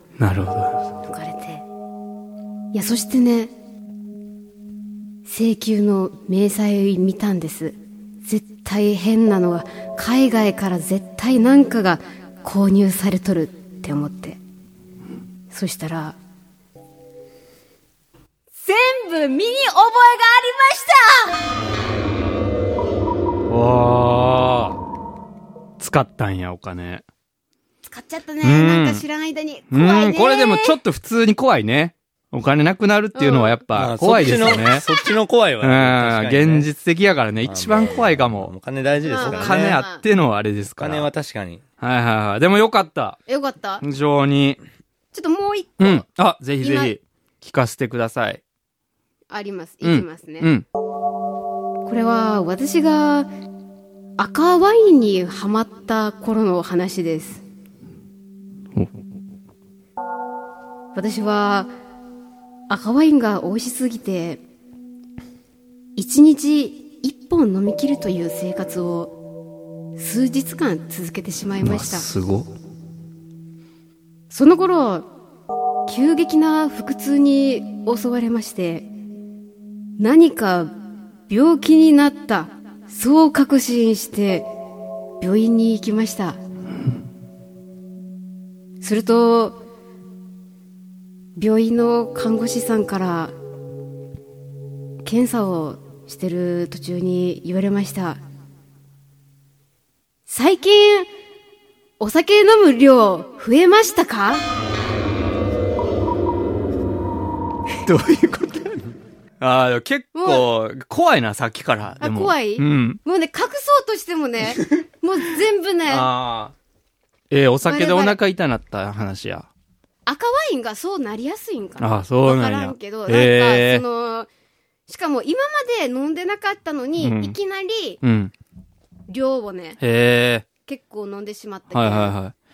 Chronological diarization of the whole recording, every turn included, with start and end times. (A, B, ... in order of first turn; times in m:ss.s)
0:00.2-0:00.8 A
0:01.0-0:01.6 B
0:02.7-0:03.5 B
0:05.2-0:14.4 B
0:15.5-0:16.2 B
0:18.6-0:21.4 B
0:23.5-0:24.8 A
0:25.8-0:27.0 A
0:27.9-0:30.8 B
0:28.4-0:29.0 A
0:29.7-0:34.8 A
0:33.1-0:33.6 B
0:33.7-0:36.7 C
0:35.6-0:38.5 A
0:37.4-0:39.8 C
0:39.0-0:40.0 B
0:39.2-0:41.1 A
0:40.8-0:41.6 C
0:41.8-0:43.2 A
0:43.3-0:43.8 B
0:43.8-0:44.6 A
0:45.1-0:46.0 B
0:45.8-0:48.4 A
0:46.6-0:47.0 B
0:49.3-0:50.5 B
0:49.8-0:50.6 A
0:51.8-0:53.3 B
0:54.2-0:57.4 B
1:00.9-1:01.7 B
1:02.7-1:04.4 B
1:06.0-1:09.1 B
1:10.0-1:12.1 B
1:11.6-1:12.5 A
1:14.3-1:15.0 B
1:15.9-1:18.9 B
1:20.0-1:20.7 B
1:21.3-1:24.5 B
1:25.2-1:26.4 B
1:28.8-1:29.6 B
1:31.4-1:33.3 B
1:35.0-1:38.2 B
1:40.3-1:41.1 B
1:42.0-1:44.4 B
1:47.8-1:48.9 A
1:49.4-1:53.0 A
1:50.1-1:50.5 B
1:52.0-1:56.1 B
1:54.5-1:54.8 A
1:55.9-1:56.5 A
1:57.3-1:59.5 A
1:57.6-1:58.2 B
2:00.0-2:04.3 B
2:01.8-2:03.8 A
2:04.9-2:08.0 B
2:07.0-2:07.4 A
2:08.0-2:08.3 A
2:09.1-2:09.8 B
2:09.8-2:10.4 A
2:10.6-2:12.2 B
2:11.7-2:12.3 A